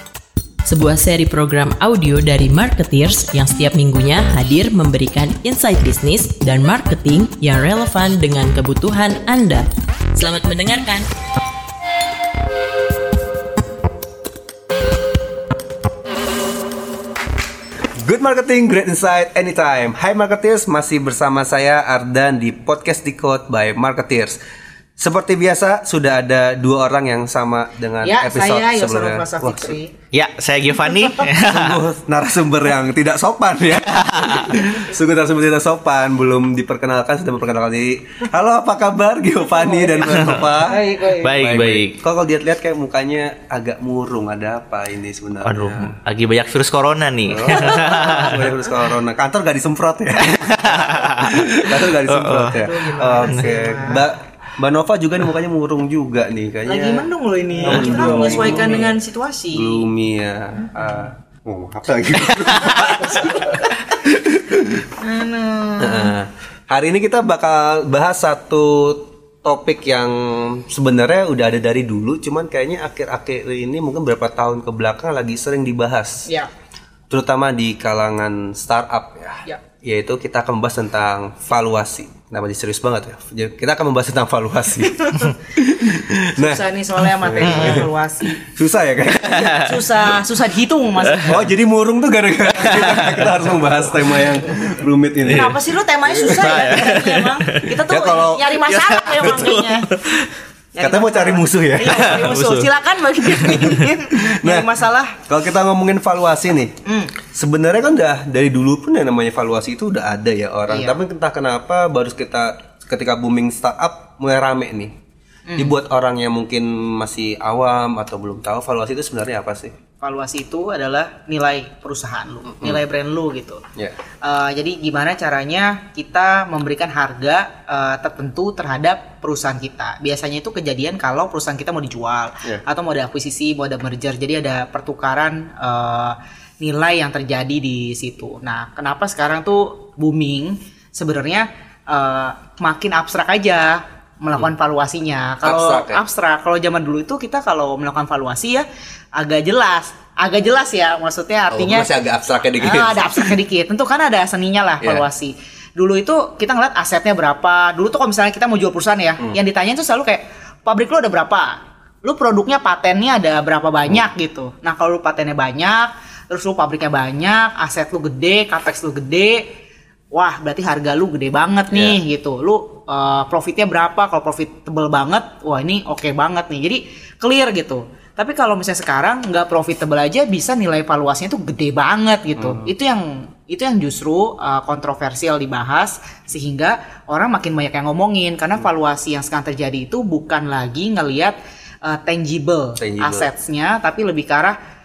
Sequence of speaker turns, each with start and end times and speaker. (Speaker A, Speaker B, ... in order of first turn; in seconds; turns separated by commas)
Speaker A: 0.7-11.1, Speaker B: 18.0-24.4, Speaker B: 25.0-29.8, Speaker C: 28.0-29.9, Speaker D: 30.1-31.8, Speaker B: 31.3-46.0, Speaker D: 34.1-34.6, Speaker D: 40.1-40.5, Speaker C: 40.7-41.2, Speaker D: 41.1-42.0, Speaker D: 45.4-48.5, Speaker B: 47.3-57.1, Speaker D: 50.2-53.6, Speaker C: 52.5-54.1, Speaker C: 56.7-59.9, Speaker B: 57.6-58.9, Speaker B: 59.5-64.8, Speaker C: 62.8-63.6, Speaker C: 65.0-66.1, Speaker B: 65.8-76.2, Speaker B: 77.1-89.7, Speaker C: 85.0-85.3, Speaker C: 86.4-88.4, Speaker D: 87.4-87.9, Speaker C: 89.2-91.5, Speaker D: 89.4-89.7, Speaker B: 91.2-96.7, Speaker D: 92.8-93.3, Speaker C: 95.3-99.9, Speaker D: 96.3-97.8, Speaker B: 97.9-98.6, Speaker D: 98.7-100.3, Speaker C: 100.8-105.2, Speaker B: 100.8-102.4, Speaker D: 101.9-103.7, Speaker B: 103.5-104.7, Speaker B: 105.3-106.7, Speaker C: 106.8-107.2, Speaker B: 107.3-114.9, Speaker C: 110.7-111.0, Speaker C: 115.5-115.8, Speaker B: 115.6-119.7, Speaker C: 120.0-123.6, Speaker B: 122.5-122.8, Speaker C: 124.2-152.0, Speaker B: 145.4-146.0, Speaker B: 151.5-153.4, Speaker C: 152.6-169.4, Speaker C: 170.1-194.6, Speaker B: 171.7-172.0, Speaker B: 182.4-182.7, Speaker B: 192.8-193.3